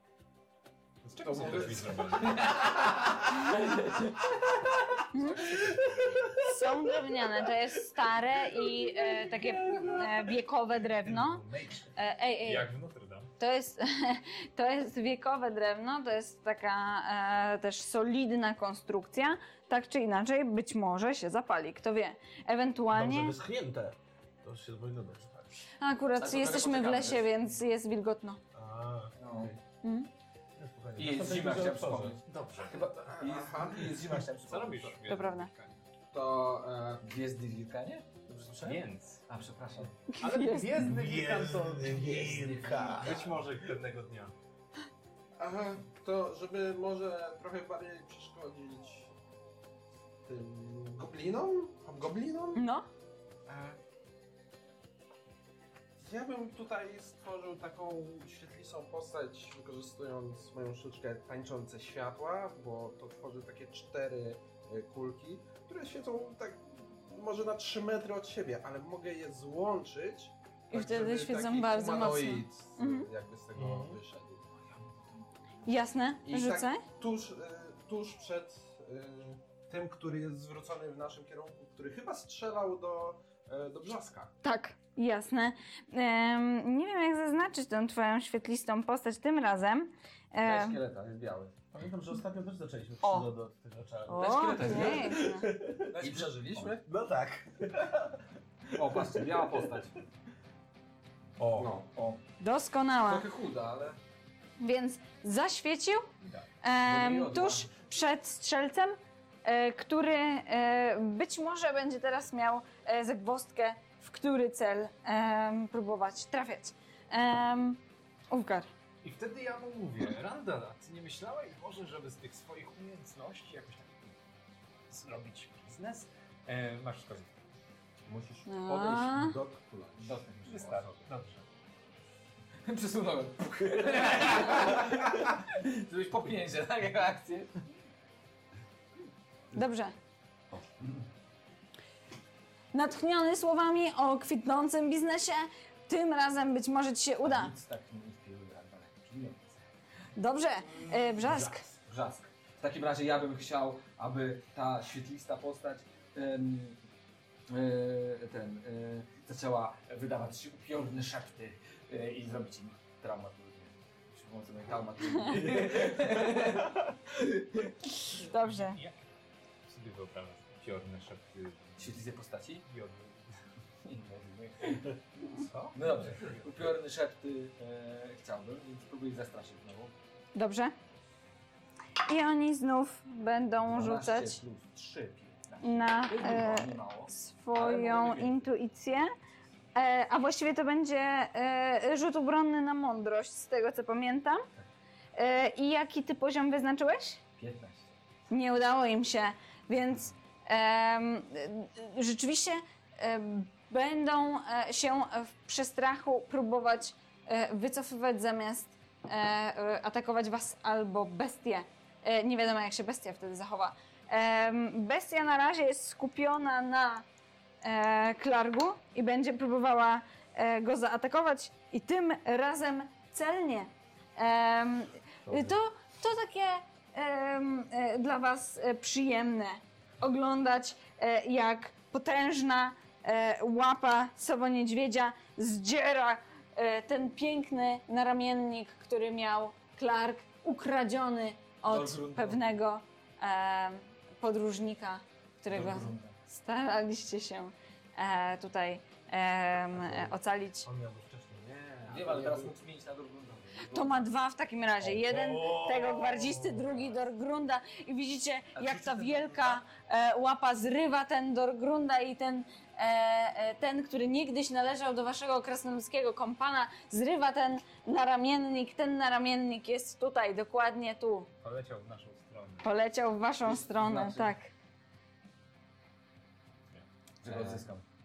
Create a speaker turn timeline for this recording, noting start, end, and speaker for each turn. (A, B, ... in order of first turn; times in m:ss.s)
0:01.0-0:02.7 A
0:01.2-0:02.5 B
0:02.1-0:05.0 C
0:05.1-0:05.5 D
0:05.5-0:06.3 A
0:06.4-0:11.4 D
0:11.0-0:11.9 E
0:12.0-0:12.7 D
0:12.4-0:13.3 A
0:13.4-0:23.3 D
0:22.9-0:25.6 E
0:25.8-0:28.4 D
0:26.2-0:27.3 C
0:28.6-0:29.5 E
0:29.2-0:29.5 C
0:29.8-0:30.1 D
0:30.6-0:32.2 E
0:31.0-0:35.0 C
0:32.3-0:32.9 A
0:33.0-0:33.9 B
0:34.4-0:35.8 A
0:35.1-0:35.5 D
0:36.1-0:37.0 B
0:37.0-0:40.0 C
0:38.6-0:39.2 A
0:40.1-0:40.9 D
0:40.2-0:44.3 A
0:40.8-0:43.3 E
0:41.9-0:43.2 C
0:42.4-0:42.8 B
0:45.4-0:49.1 B
0:50.2-0:52.6 B
0:52.6-0:52.9 D
0:53.5-0:53.8 B
0:56.0-1:14.7 B
1:10.7-1:13.1 D
1:13.6-1:14.0 E
1:14.7-1:15.6 C
1:15.7-1:16.8 D
1:16.3-1:24.3 B
1:24.4-1:30.8 D
1:30.4-1:31.6 C
1:31.7-1:36.1 E
1:33.0-1:33.3 D
1:34.1-1:35.5 D
1:34.1-1:35.3 C
1:34.6-1:35.0 B
1:35.9-1:36.8 C
1:36.0-1:36.8 B
1:36.8-1:38.2 E
1:38.7-1:39.8 E
1:38.8-1:40.0 C
1:41.4-1:41.7 A
1:41.4-1:42.2 C
1:42.4-1:43.3 D
1:43.1-1:44.0 C
1:44.6-1:46.1 D
1:46.2-1:46.5 A
1:46.6-1:58.7 D
1:46.8-1:47.7 C
1:59.0-2:04.2 A
2:04.9-2:07.3 A
2:08.1-2:11.0 B
2:08.5-2:09.4 D
2:10.0-2:10.8 C
2:10.5-2:11.4 A
2:12.6-2:17.6 C
2:19.5-2:20.0 D
2:22.7-2:27.5 D
2:27.2-2:29.6 C
2:30.2-2:31.6 D
2:31.2-2:31.7 E
2:31.8-2:36.8 C
2:37.5-2:46.8 C
2:47.9-2:48.8 D
2:48.3-2:49.0 A
2:49.7-2:52.0 A
2:51.8-2:52.7 C
2:52.6-2:53.3 A
2:53.8-2:54.9 C
2:55.2-2:56.6 A
2:55.7-2:59.9 C
3:00.4-3:00.7 D
3:02.1-3:04.4 D
3:03.6-3:08.4 C
3:05.6-3:09.1 D
3:09.8-3:14.5 D
3:15.2-3:17.2 D
3:17.4-3:17.9 C
3:18.3-3:37.0 D
3:37.6-4:10.7 D
4:01.7-4:02.4 C
4:05.5-4:06.2 C
4:09.8-4:12.2 E
4:11.5-4:12.6 B
4:11.9-4:14.1 C
4:13.6-4:31.3 D
4:14.8-4:16.9 E
4:18.6-4:19.6 C
4:31.4-4:32.7 A
4:32.6-4:34.5 D
4:33.4-4:34.3 C
4:37.2-4:37.8 C
4:37.2-4:37.6 B